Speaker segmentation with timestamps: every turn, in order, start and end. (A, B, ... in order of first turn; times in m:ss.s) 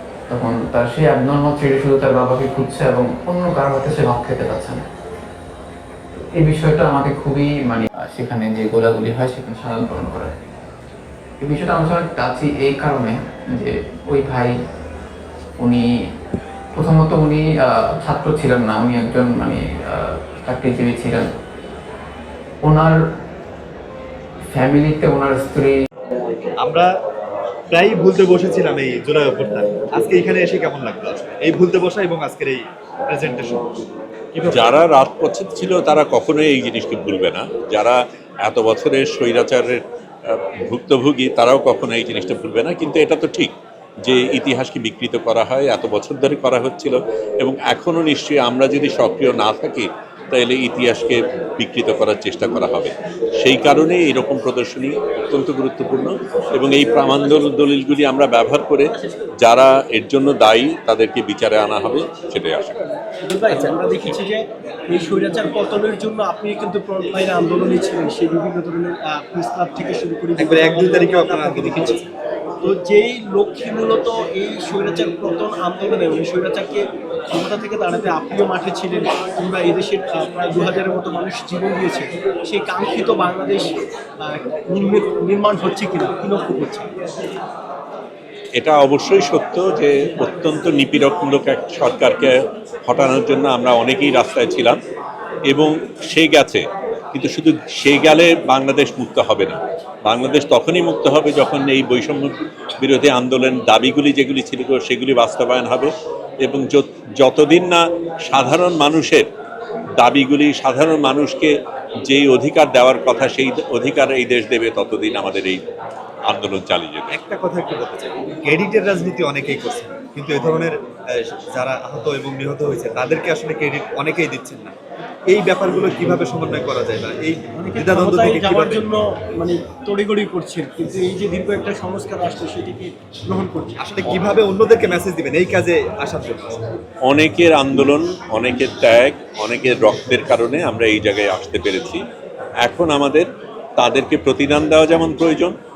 0:00.3-0:04.8 A
0:06.1-0:10.3 A
0:11.4-0:14.5 A
0:15.6-0:15.9 A
0:16.7-0:21.3 A
0:22.6-0:23.0 A
0:24.5-0:25.7 A
0:26.6-0:26.9 B
0:27.7-0:33.6 B
0:34.3-0:34.8 B
0:34.5-0:43.5 C
0:44.0-1:02.8 C
0:58.9-0:59.3 D
1:03.1-1:12.0 D
1:10.4-1:12.0 B
1:12.6-1:26.9 D
1:28.6-1:32.3 C
1:32.8-1:34.8 C
1:35.5-1:45.9 C
1:46.4-1:49.2 C
1:50.0-1:51.5 C
1:52.1-1:55.6 C
1:56.3-1:57.2 C
1:57.1-2:04.7 B
2:05.3-2:08.8 B
2:07.6-2:13.8 D
2:13.8-2:16.6 B
2:17.0-2:22.0 C
2:22.6-2:23.2 C
2:23.8-2:25.5 C